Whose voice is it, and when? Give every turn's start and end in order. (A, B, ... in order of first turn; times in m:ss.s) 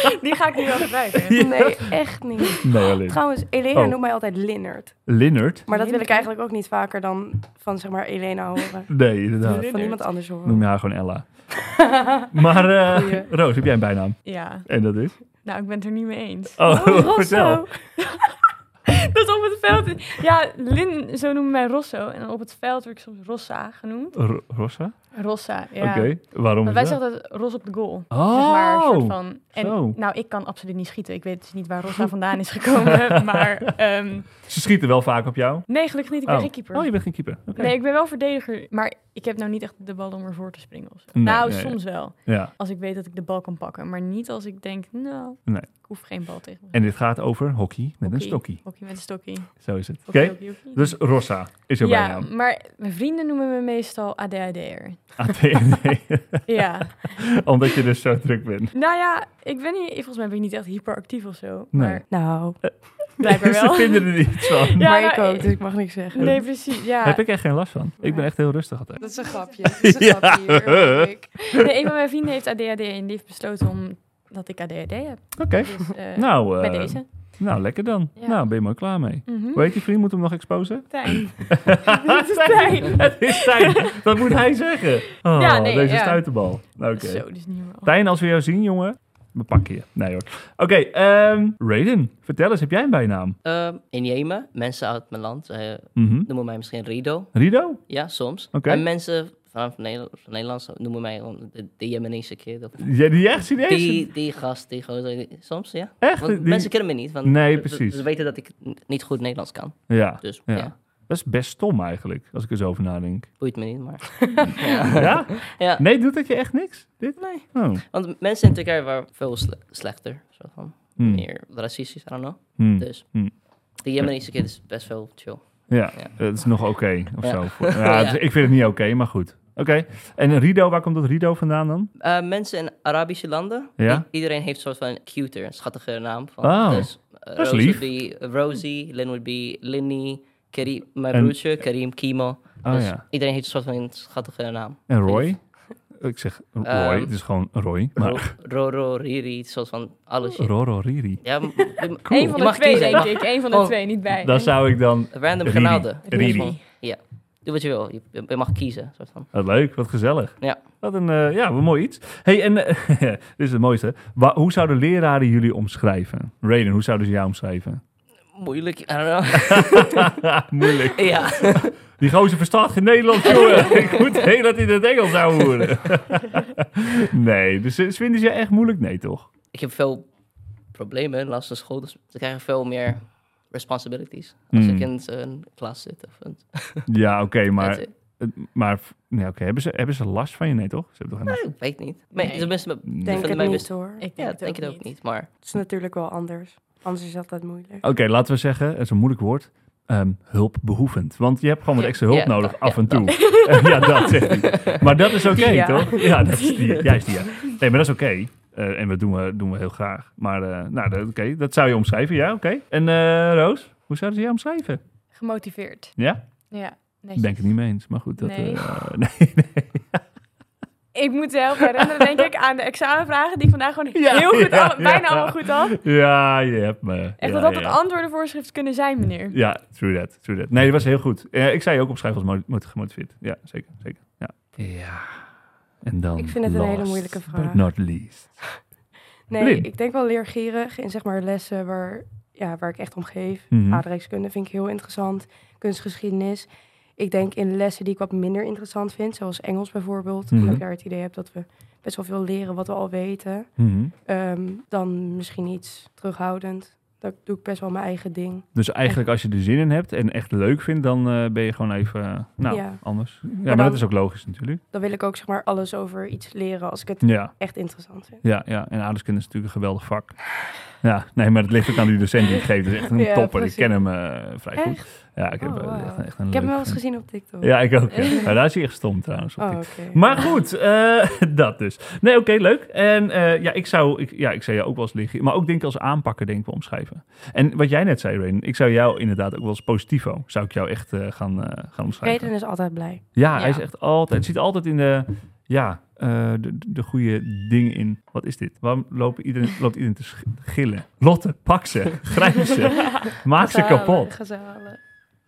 0:00.2-0:01.6 A
0:01.2-0:03.9 B
0:01.3-0:10.6 C
0:05.1-0:05.7 B
0:05.7-0:06.3 A
0:08.9-0:15.1 B
0:09.7-0:10.0 A
0:11.8-0:13.3 C
0:14.2-0:24.2 A
0:16.6-0:17.7 B
0:16.7-0:17.6 C
0:24.2-0:25.2 B
0:25.1-0:34.4 A
0:25.8-0:27.0 B
0:28.1-0:30.0 B
0:34.5-0:37.7 B
0:35.7-0:46.8 A
0:41.2-0:42.5 B
0:46.7-0:48.9 B
0:48.0-0:51.2 A
0:49.5-0:52.3 B
0:51.8-0:55.1 A
0:55.2-0:58.7 B
0:56.5-0:57.3 A
0:58.7-1:02.1 A
1:01.7-1:04.9 B
1:02.1-1:02.8 C
1:03.2-1:07.2 A
1:04.8-1:06.4 C
1:06.2-1:11.1 B
1:09.0-1:11.6 C
1:11.5-1:17.4 A
1:15.4-1:33.4 B
1:18.2-1:19.7 A
1:20.9-1:24.3 A
1:25.3-1:27.9 A
1:33.4-1:43.0 D
1:36.0-1:36.3 B
1:37.3-1:37.9 B
1:38.5-1:38.8 B
1:42.8-1:44.1 B
1:43.6-1:50.7 D
1:46.0-1:48.0 B
1:49.9-1:53.3 B
1:53.4-1:55.8 D
1:54.2-1:54.7 C
1:54.9-1:57.8 B
1:57.2-2:06.2 D
2:01.0-2:01.2 B
2:02.6-2:03.3 B
2:05.7-2:11.9 B
2:07.2-2:08.2 D
2:12.0-2:25.3 D
2:13.8-2:14.0 B
2:16.4-2:17.8 B
2:22.6-2:23.0 B
2:24.9-2:25.4 B
2:25.9-2:28.3 B
2:26.6-2:27.1 D
2:27.9-2:30.5 D
2:30.3-2:31.2 B
2:31.2-2:33.8 D
2:32.0-2:33.1 B
2:32.1-2:34.6 A
2:34.2-2:36.6 B
2:35.1-2:39.3 D
2:36.1-2:36.6 A
2:39.3-2:47.8 B
2:48.3-2:50.1 D
2:49.6-2:59.3 B
2:50.8-2:51.8 D
2:53.2-2:54.2 D
2:55.3-2:55.6 D
2:59.5-3:00.1 D
3:00.7-3:06.9 D
3:04.5-3:04.9 B
3:06.9-3:11.5 B
3:07.6-3:07.9 D
3:11.3-3:15.3 D
3:12.1-3:12.7 A
3:12.9-3:13.6 B
3:13.0-3:14.1 C
3:14.0-3:14.9 A
3:15.4-3:17.8 C
3:17.8-3:34.8 B
3:21.8-3:24.8 D
3:25.3-3:26.2 C
3:35.1-3:36.0 A
3:36.0-3:36.2 B
3:36.5-3:37.6 A
3:37.2-3:40.0 B
3:38.2-3:38.6 A
3:40.9-3:45.8 A
3:43.9-3:47.8 B
3:47.2-3:49.4 A
3:49.3-3:55.3 B
3:55.8-3:58.6 B
3:56.2-3:57.6 C
3:59.3-4:19.0 C
3:59.4-3:59.6 B
4:03.5-4:03.8 B
4:10.3-4:10.6 B
4:13.6-4:13.9 B
4:18.6-4:24.6 B
4:22.5-4:23.9 C
4:24.7-4:28.2 C
4:27.0-4:27.4 B
4:28.2-4:52.3 B
4:32.9-4:33.9 C
4:34.5-4:34.8 C
4:35.4-4:38.4 C
4:37.9-4:38.2 A
4:39.4-4:40.4 C
4:52.0-4:53.0 C
4:53.1-5:04.1 B
4:53.3-4:53.6 A
5:03.3-5:04.8 C